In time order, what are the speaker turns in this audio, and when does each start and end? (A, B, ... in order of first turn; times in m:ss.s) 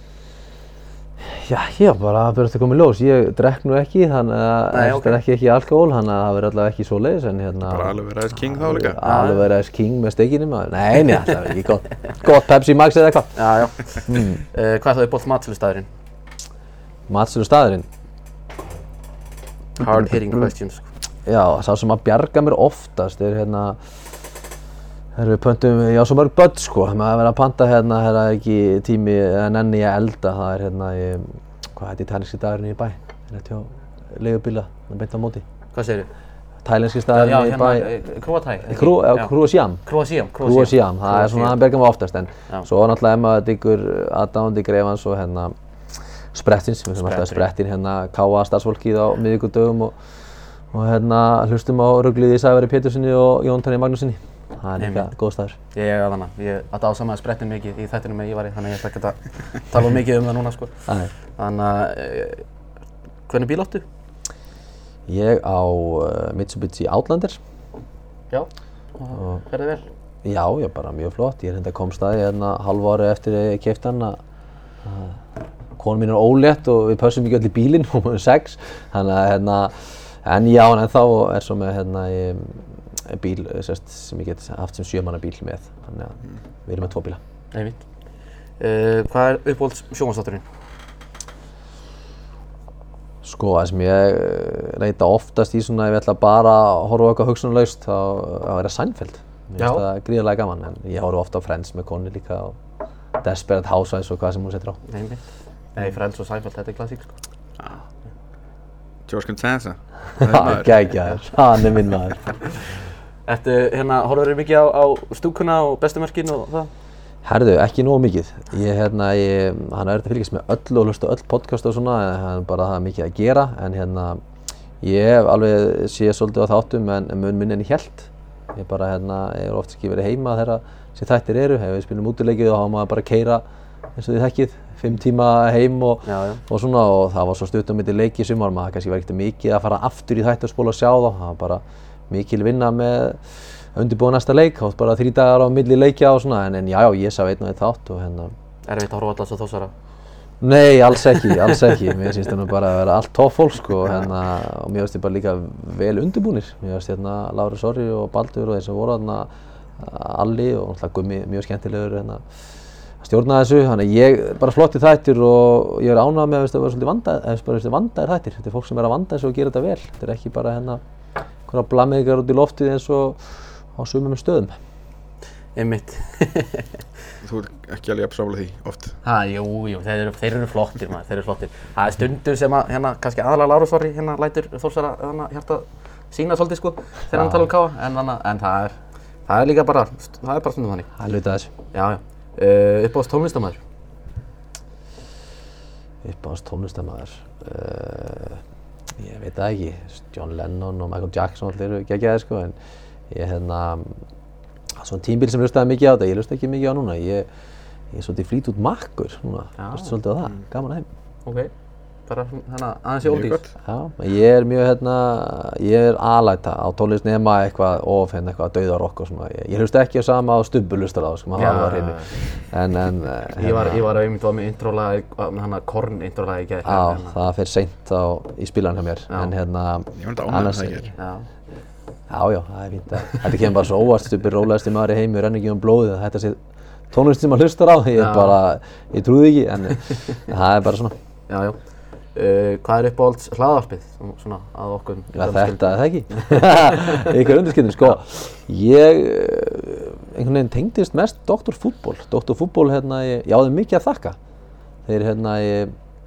0:01.2-0:13.4 A
0:04.7-0:05.2 B
0:07.6-0:09.0 C
0:09.0-0:09.4 B
0:13.4-0:15.9 B
0:14.0-0:14.4 A
0:17.1-0:17.8 A
0:19.8-0:20.9 B
0:21.2-0:24.0 A
0:25.1-0:35.4 A
0:35.7-0:36.1 B
0:36.6-0:38.0 A
0:37.1-0:41.6 B
0:38.7-0:39.8 A
0:40.4-0:45.5 A
0:46.3-0:50.0 A
0:47.0-0:47.4 B
0:50.7-0:55.6 A
0:54.8-0:55.1 B
0:55.7-1:02.4 B
1:00.9-1:01.1 A
1:03.3-1:03.8 B
1:05.1-1:07.4 A
1:08.3-1:09.8 B
1:09.1-1:09.4 A
1:10.2-1:14.2 A
1:14.8-1:15.2 A
1:15.8-1:27.2 A
1:27.5-1:27.8 B
1:28.6-1:30.4 B
1:33.2-1:42.6 A
1:39.6-1:39.8 B
1:43.2-1:44.8 A
1:44.9-1:47.2 B
1:49.1-1:50.9 C
1:50.2-1:52.4 A
1:53.2-1:56.7 B
1:57.2-2:04.2 A
2:04.8-2:13.4 A
2:14.0-2:28.3 A
2:16.0-2:16.4 B
2:28.7-2:29.7 B
2:30.4-2:42.2 A
2:31.2-2:31.6 B
2:43.0-2:50.8 A
2:51.5-2:54.6 A
2:55.6-2:56.8 B
2:57.2-2:59.0 C
2:59.0-3:10.9 B
3:07.1-3:07.5 A
3:11.0-3:11.5 A
3:11.7-3:13.6 B
3:16.0-3:18.4 A
3:19.0-3:22.5 A
3:23.1-3:24.0 A
3:24.8-3:27.3 A
3:27.9-3:30.9 A
3:29.6-3:30.0 B
3:31.2-3:31.5 B
3:32.1-3:33.5 B
3:33.1-3:33.5 C
3:33.6-3:43.8 A
3:41.3-3:42.2 B
3:43.4-3:47.2 B
3:46.6-3:50.9 A
3:49.9-3:50.9 C
3:51.0-3:51.3 B
3:52.1-3:56.4 A
3:56.9-4:00.9 A
3:58.0-3:58.4 B
4:01.3-4:01.6 B
4:02.1-4:07.1 B
4:05.2-4:14.2 A
4:14.8-4:15.7 A